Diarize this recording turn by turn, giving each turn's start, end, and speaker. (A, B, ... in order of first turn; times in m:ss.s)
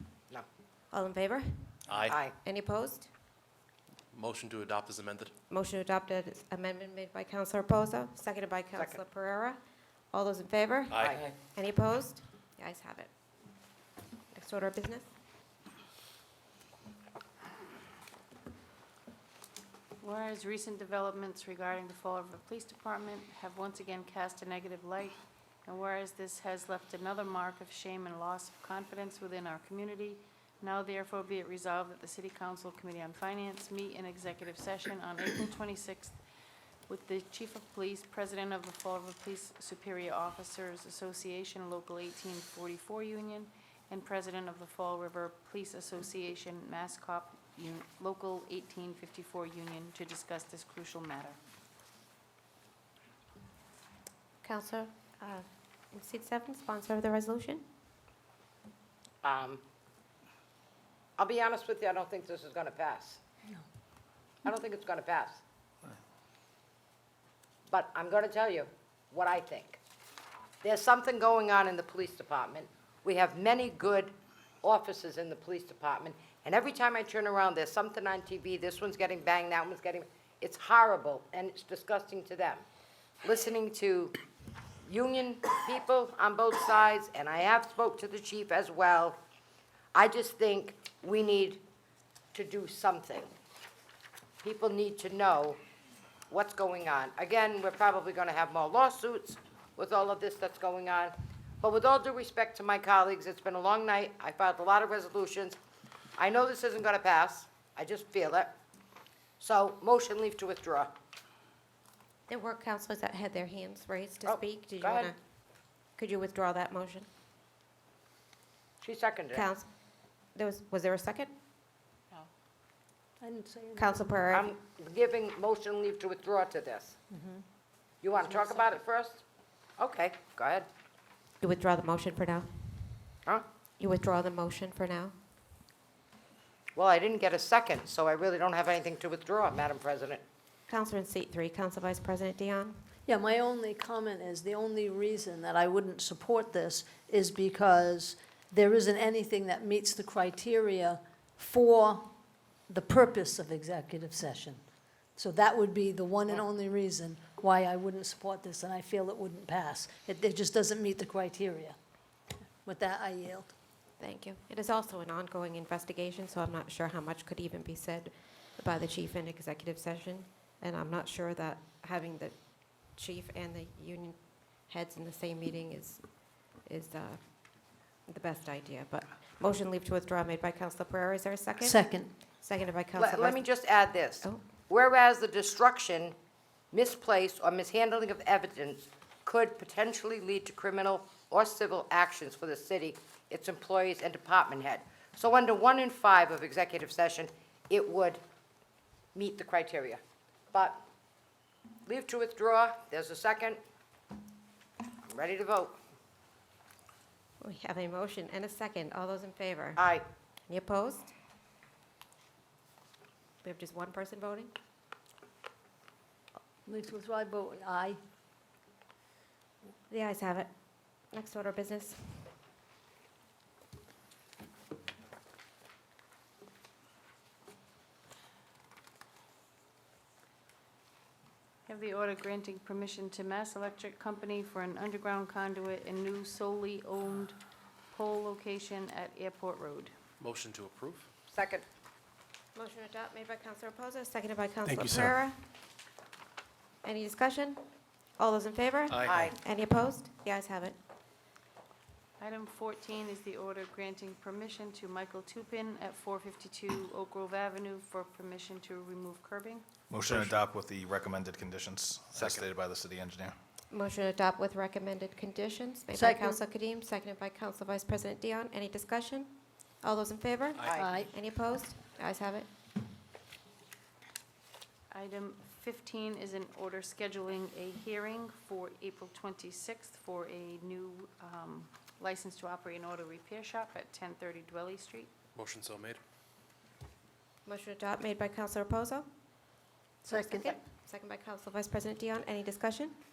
0:00.9-0:01.8 A
0:01.9-0:02.2 B
0:02.0-0:02.3 C
0:02.4-0:03.1 A
0:04.1-0:05.3 B
0:05.5-0:09.6 A
0:10.1-0:13.1 A
0:10.9-0:11.2 B
0:11.0-0:11.2 C
0:14.3-0:15.1 A
0:20.0-0:36.2 D
0:36.9-0:51.4 D
0:54.4-0:57.6 A
0:59.2-0:59.6 C
1:01.2-1:03.2 C
1:04.4-1:05.4 C
1:07.7-1:09.8 C
1:10.6-1:22.6 C
1:23.2-1:24.2 C
1:24.8-1:29.2 C
1:29.9-1:31.6 C
1:32.3-1:33.3 C
1:34.4-1:35.6 C
1:36.3-1:45.6 C
1:46.2-1:48.5 C
1:49.4-1:50.9 C
1:52.3-1:55.2 A
1:54.2-1:55.1 C
1:56.0-1:57.1 A
1:58.8-1:59.4 C
1:59.3-1:59.7 A
2:00.3-2:01.3 A
2:03.2-2:04.1 E
2:03.8-2:04.5 A
2:04.3-2:07.0 C
2:07.1-2:07.4 E
2:08.0-2:09.2 C
2:09.8-2:10.6 C
2:11.4-2:13.1 A
2:13.8-2:15.1 A
2:16.8-2:20.2 C
2:20.7-2:22.8 A
2:23.0-2:32.1 E
2:32.7-2:34.6 E
2:35.2-2:41.8 E
2:42.6-2:43.5 E
2:44.0-3:01.9 A
3:01.6-3:02.1 E
3:02.4-3:03.5 A
3:03.0-3:06.1 C
3:06.7-3:18.2 C
3:19.1-3:20.0 C
3:20.5-3:20.8 C
3:21.8-3:23.6 C
3:25.1-3:25.7 C
3:27.4-3:29.8 A
3:29.8-3:30.0 C
3:30.5-3:31.1 A
3:33.4-3:34.5 A
3:36.6-3:38.0 E
3:39.9-3:40.5 A
3:41.1-3:42.3 A
3:51.7-3:57.4 D
3:57.9-3:59.9 D
4:00.2-4:01.1 B
4:01.3-4:01.6 C
4:02.5-4:05.4 A
4:06.8-4:07.6 A
4:08.2-4:10.8 A
4:08.9-4:09.2 B
4:09.0-4:09.3 C
4:12.2-4:19.6 D
4:19.9-4:23.3 F
4:20.1-4:20.4 B
4:22.2-4:22.4 B
4:23.7-4:29.3 A
4:25.9-4:26.4 E
4:29.8-4:32.5 A
4:30.6-4:30.8 B
4:30.7-4:31.1 E
4:34.9-4:45.1 D
4:45.3-4:46.0 B
4:47.4-4:49.1 A
4:50.0-4:52.9 A
4:50.1-4:50.6 E